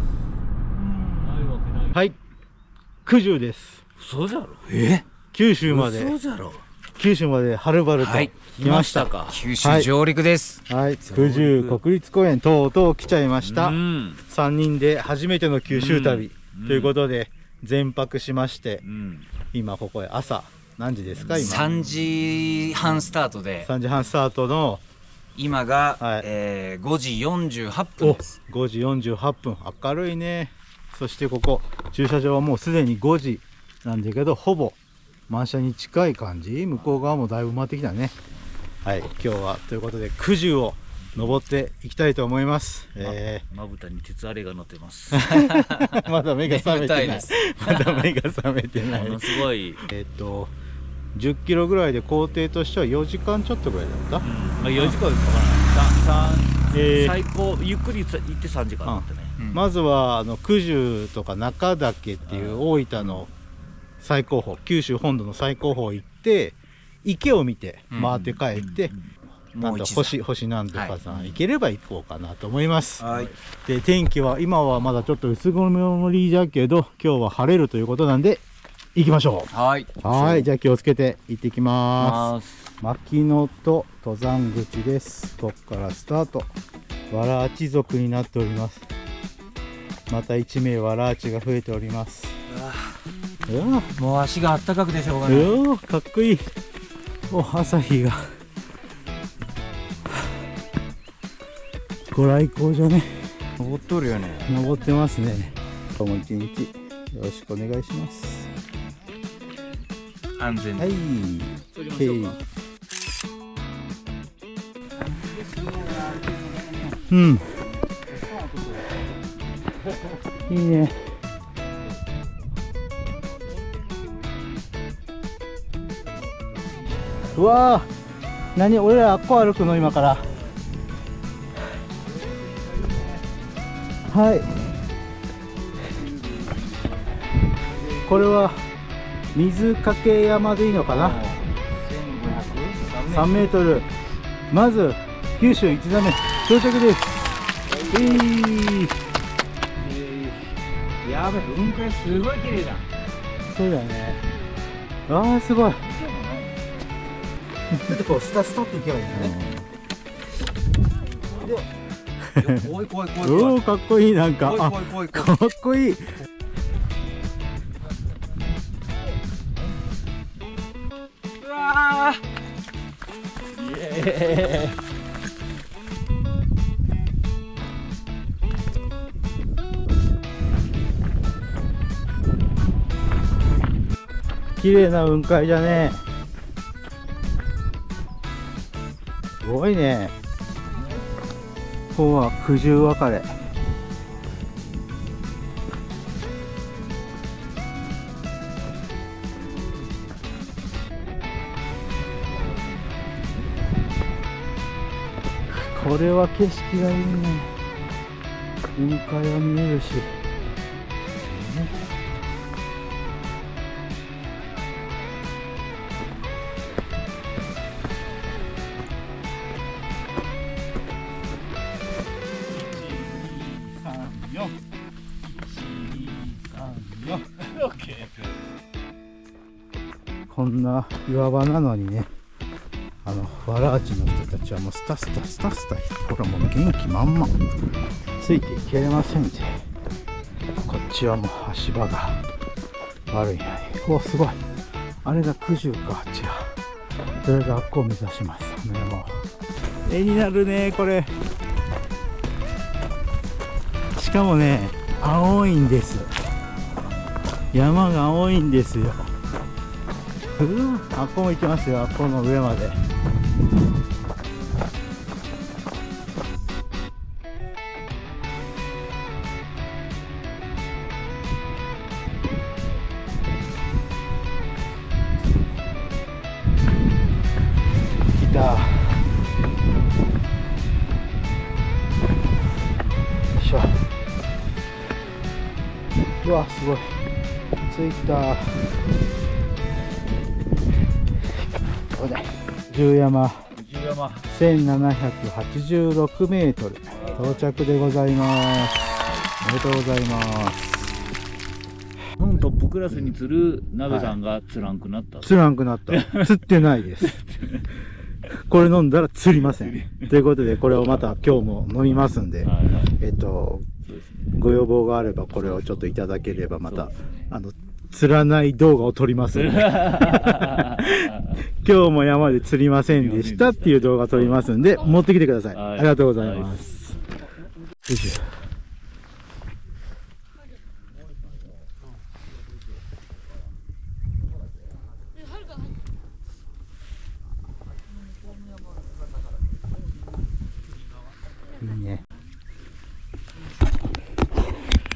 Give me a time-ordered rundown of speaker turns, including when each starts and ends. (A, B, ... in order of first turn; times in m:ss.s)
0:00.9-0:02.2 A
0:01.2-0:02.1 B
0:03.0-0:03.8 A
0:04.0-0:05.0 B
0:05.3-0:06.2 A
0:05.7-0:06.6 B
0:07.0-0:09.9 A
0:08.0-0:08.6 C
0:08.6-0:09.5 B
0:09.2-0:10.6 C
0:10.7-0:18.8 A
0:11.1-0:11.8 B
0:11.2-0:11.6 C
0:13.4-0:14.2 B
0:15.7-0:17.0 B
0:18.8-0:19.2 B
0:19.5-0:21.7 A
0:21.3-0:21.9 B
0:21.3-0:23.7 C
0:23.6-0:24.8 A
0:25.4-0:28.2 C
0:26.0-0:26.3 A
0:28.0-0:34.8 A
0:35.3-0:38.1 A
0:38.8-0:43.4 A
0:41.1-0:41.4 B
0:43.0-0:48.1 B
0:45.1-0:50.5 A
0:48.7-0:49.8 B
0:51.1-0:55.0 A
0:54.2-0:59.3 B
0:56.7-0:57.2 A
0:58.8-1:03.3 A
1:02.3-1:02.7 B
1:04.0-1:08.9 A
1:07.9-1:08.4 C
1:08.5-1:08.9 B
1:09.5-1:10.2 C
1:09.6-1:13.1 A
1:10.7-1:11.4 C
1:13.0-1:13.3 C
1:13.6-1:18.4 A
1:18.9-1:26.5 A
1:19.5-1:20.5 C
1:22.0-1:22.5 C
1:27.1-1:28.8 A
1:30.1-1:32.4 A
1:32.5-1:33.0 C
1:33.5-1:33.9 A
1:34.0-1:35.6 C
1:35.2-1:36.4 A
1:37.3-1:38.4 A
1:42.1-1:43.3 A
1:43.6-1:44.5 C
1:44.4-1:48.5 A
1:50.4-1:50.9 C
1:50.8-1:52.4 A
1:55.0-1:57.1 C
1:57.1-1:57.6 A
1:58.0-1:58.9 C
2:00.5-2:01.1 A
2:07.3-2:07.9 A
2:08.5-2:10.3 A
2:14.1-2:14.6 A
2:15.8-2:16.7 C
2:17.9-2:18.2 C
2:18.0-2:18.6 A
2:19.3-2:21.2 A
2:20.9-2:23.4 C
2:23.1-2:23.9 A
2:24.5-2:28.9 A
2:27.7-2:28.3 C
2:29.8-2:30.5 C
2:31.0-2:32.9 C
2:33.5-2:34.2 A
2:35.1-2:35.8 A
2:35.8-2:36.6 C
2:37.7-2:39.6 A
2:42.4-2:43.6 C
2:43.2-2:46.1 A
2:44.4-2:45.3 C
2:51.4-2:52.2 C
2:53.5-2:54.8 B
3:04.6-3:06.0 A
3:09.4-3:10.1 A
3:11.9-3:13.3 A
3:25.5-3:27.5 A
3:28.8-3:30.2 A
3:31.3-3:31.7 A
3:43.0-3:44.5 A
3:45.4-3:48.2 B
3:46.6-3:47.3 A
3:50.3-3:52.1 A
3:53.0-3:57.4 A
3:58.2-3:59.6 A
4:00.6-4:02.2 A
4:03.1-4:04.4 A
4:05.0-4:06.5 A
4:07.2-4:09.2 A
4:09.8-4:11.1 A
4:14.0-4:16.1 A
4:17.5-4:19.1 A
4:20.4-4:22.8 A
4:38.1-4:39.0 A
4:43.3-4:43.8 A
4:46.2-4:47.0 A
4:47.7-4:48.7 A
4:51.9-4:53.5 A
4:53.7-4:54.1 C
4:54.3-5:01.0 A
5:02.2-5:07.6 B
5:03.8-5:04.2 A
5:05.2-5:07.2 A
5:08.4-5:13.7 A
5:09.3-5:10.1 B
5:12.4-5:12.9 B
5:13.8-5:14.4 B
5:14.3-5:26.9 A
5:15.4-5:16.0 B
5:16.6-5:16.9 B
5:19.3-5:21.4 B
5:22.9-5:26.6 B
5:27.9-5:28.3 A
5:41.6-5:42.0 A